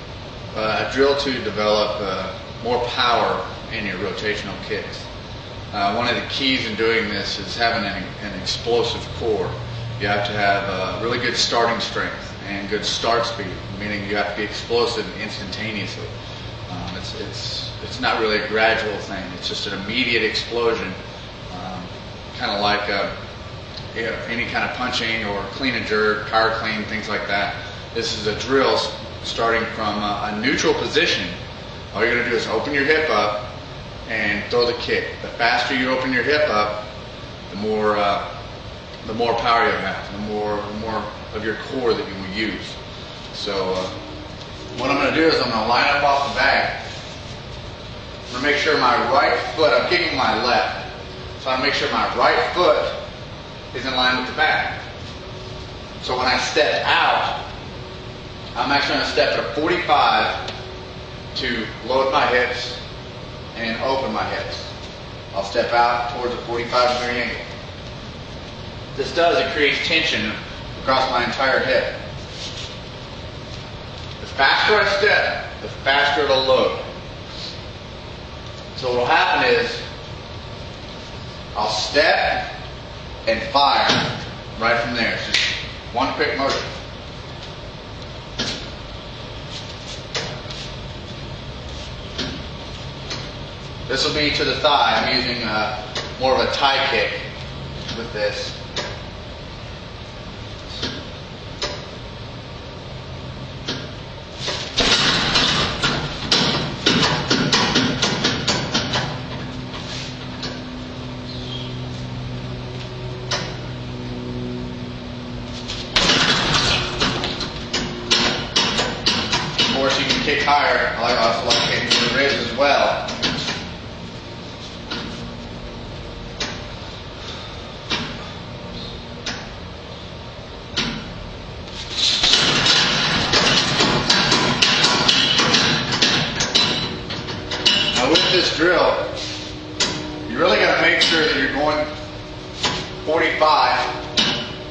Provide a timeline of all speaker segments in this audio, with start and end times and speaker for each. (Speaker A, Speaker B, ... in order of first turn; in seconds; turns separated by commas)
Speaker A: 0.5-5.1, Speaker A: 5.7-16.1, Speaker A: 16.7-21.0, Speaker A: 21.5-23.1, Speaker A: 23.9-31.4, Speaker A: 31.9-33.5, Speaker A: 34.1-36.9, Speaker A: 37.5-38.3, Speaker A: 39.0-42.8, Speaker A: 43.3-43.9, Speaker A: 44.7-46.8, Speaker A: 48.3-50.9, Speaker A: 51.4-53.0, Speaker A: 53.7-54.8, Speaker A: 56.0-57.4, Speaker A: 58.5-60.4, Speaker A: 61.3-62.8, Speaker A: 63.5-64.7, Speaker A: 65.3-67.5, Speaker A: 69.0-72.0, Speaker A: 74.2-76.8, Speaker A: 78.8-79.8, Speaker A: 81.5-82.5, Speaker A: 83.2-86.7, Speaker A: 93.9-97.3, Speaker A: 97.9-98.6, Speaker A: 119.7-123.1, Speaker A: 137.9-139.1, Speaker A: 140.3-141.9, Speaker A: 143.0-144.0